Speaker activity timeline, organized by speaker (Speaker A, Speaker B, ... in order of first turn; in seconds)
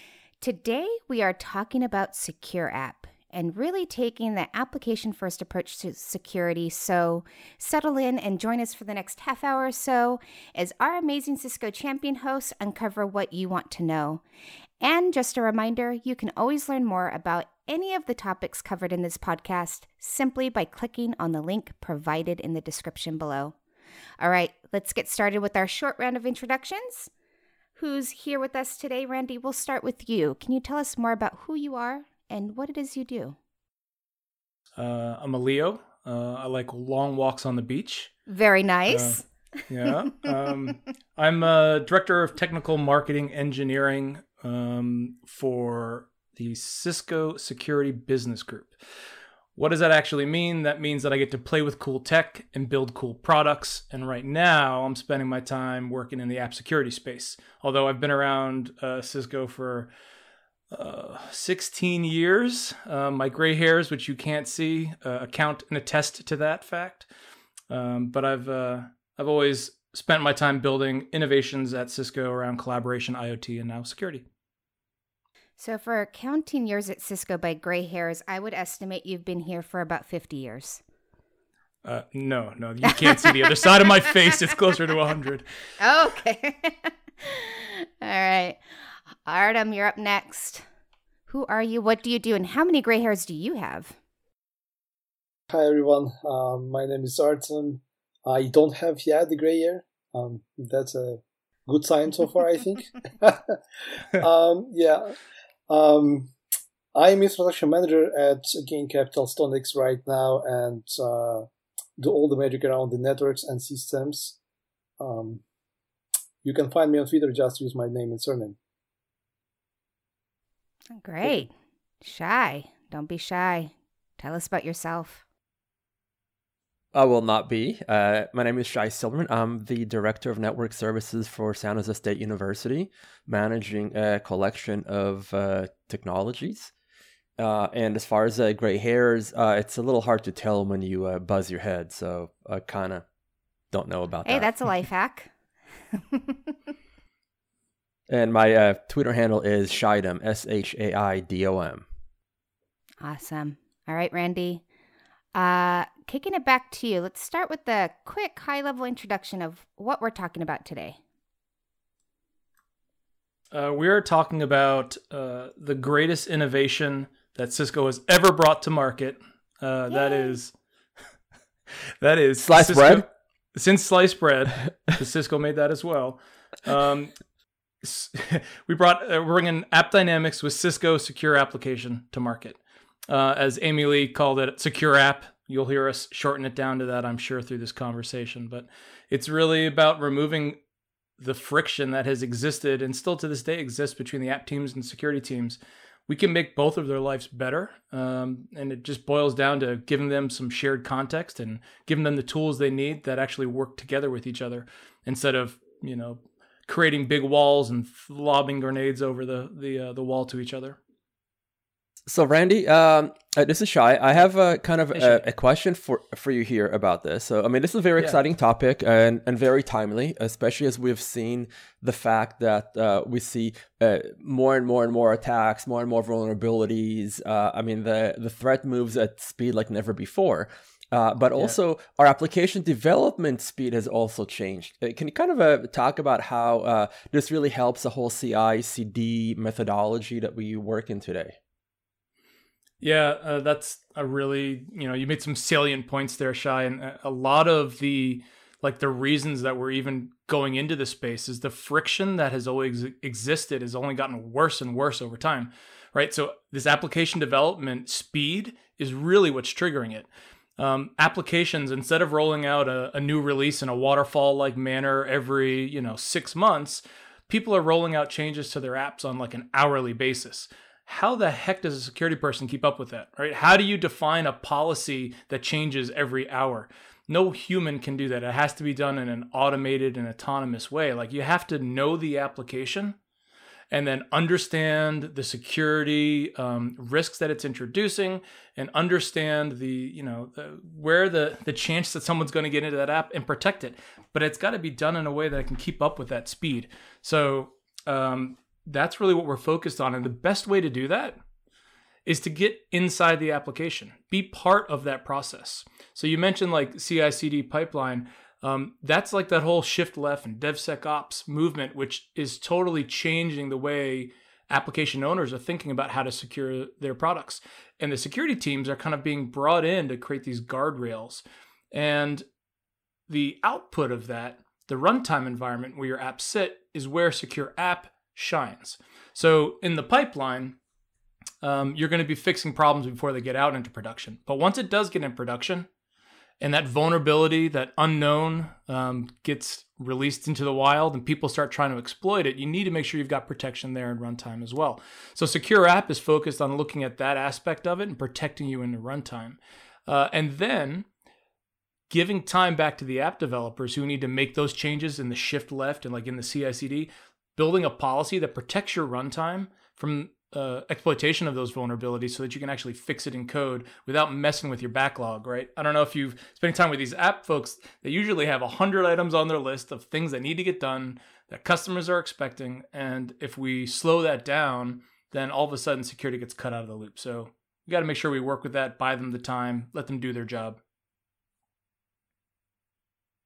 Speaker A: 0.4-14.2, 14.8-23.6, 24.2-27.1, 27.8-33.4, 38.3-39.2, 75.6-80.8, 82.9-84.1, 85.8-88.6, 89.2-90.6, 91.3-94.0, 120.9-121.5, 122.0-125.2, 144.3-145.3, 145.9-146.5, 153.0-154.6, 155.3-161.0, 170.1-170.3
Speaker B: 34.8-38.1, 38.9-48.8, 49.5-59.9, 60.7-67.1, 67.7-74.2, 81.8-85.5, 163.5-170.5, 172.0-177.1, 177.8-190.6, 191.2-210.8, 214.9-215.2, 242.8-283.0, 283.7-301.2, 302.1-322.3, 323.1-330.6, 331.4-335.7, 336.4-350.9, 351.9-380.6
Speaker C: 95.5-105.1, 105.7-106.3, 106.9-111.5, 112.0-114.4, 115.0-115.4, 116.4-118.6
Speaker D: 126.9-136.7, 137.4-143.1, 143.7-144.5, 148.1-151.8, 172.4-173.1, 212.1-241.4